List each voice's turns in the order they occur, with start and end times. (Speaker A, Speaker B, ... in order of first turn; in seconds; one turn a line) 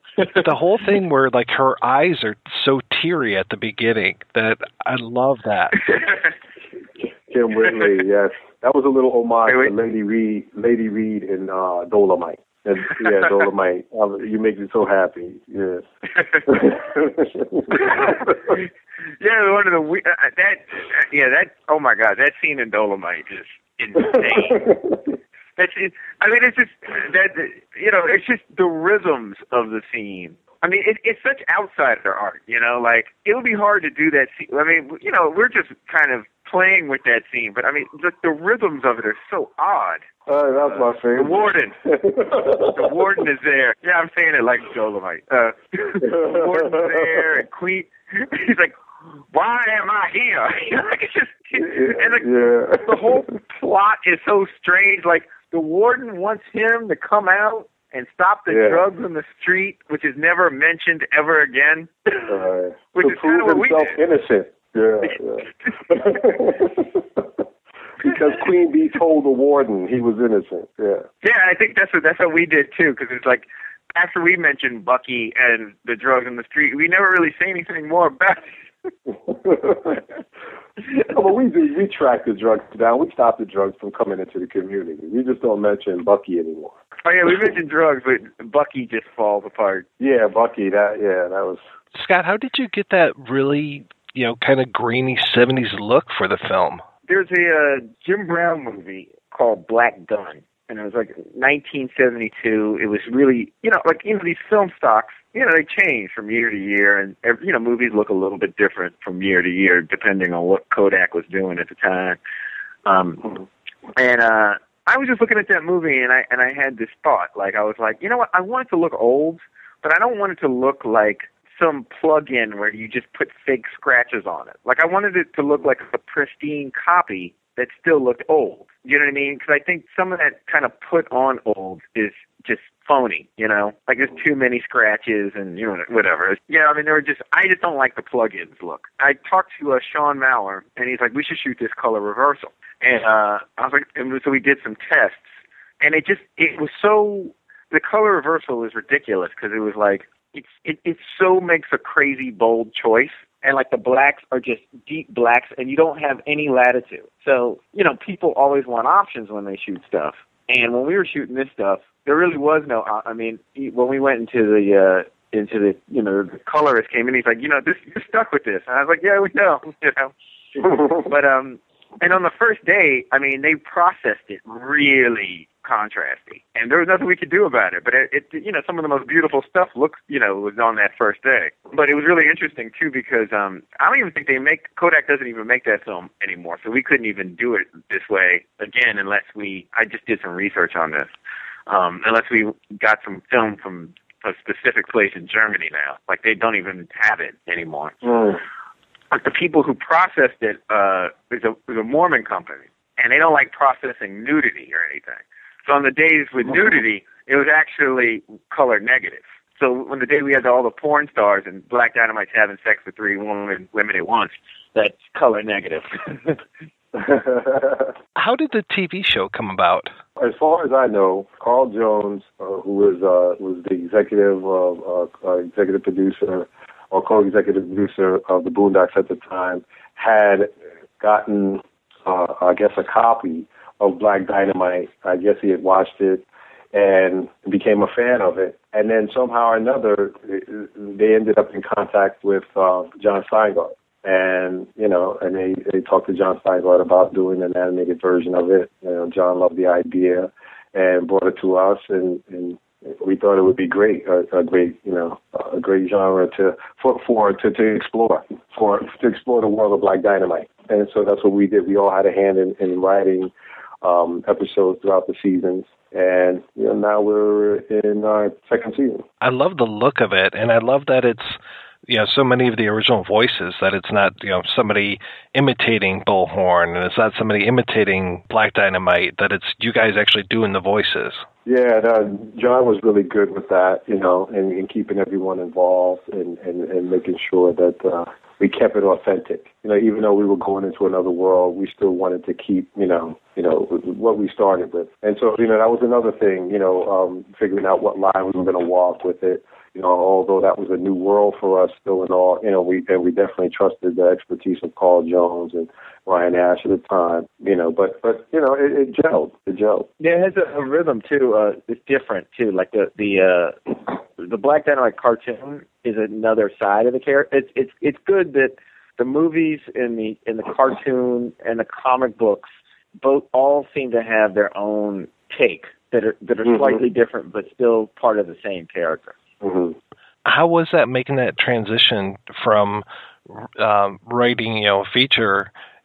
Speaker A: 0.4-5.8
Speaker B: 5.8-6.3
Speaker C: 7.3-15.8
Speaker B: 9.5-9.7
Speaker B: 16.2-16.4
Speaker C: 16.5-18.3
Speaker B: 17.8-18.6
Speaker B: 19.2-24.6
Speaker C: 24.0-25.0
Speaker B: 25.6-40.0
Speaker C: 40.3-43.2
Speaker B: 40.7-41.8
Speaker B: 42.8-48.7
Speaker C: 46.0-47.4
Speaker B: 49.3-52.3
Speaker C: 51.6-53.3
Speaker B: 52.9-62.2
Speaker C: 58.5-58.9
Speaker C: 62.3-67.2
Speaker B: 63.0-64.0
Speaker C: 68.0-71.0
Speaker B: 71.2-78.5
Speaker C: 79.3-80.0
Speaker C: 81.1-86.7
Speaker B: 87.0-89.9
Speaker C: 90.0-91.6
Speaker A: 92.0-96.8
Speaker B: 97.1-112.2
Speaker B: 112.9-113.2
Speaker B: 114.0-145.2
Speaker B: 145.8-170.1
Speaker B: 171.1-191.1
Speaker B: 191.7-198.0
Speaker C: 198.1-198.4
Speaker B: 199.1-216.3
Speaker C: 216.9-217.9
Speaker A: 218.2-219.9
Speaker C: 220.2-269.1
Speaker A: 269.2-281.2
Speaker C: 281.4-309.9
Speaker B: 310.0-313.6
Speaker B: 314.2-329.2
Speaker C: 326.4-326.8
Speaker C: 329.4-329.8
Speaker A: 330.2-335.5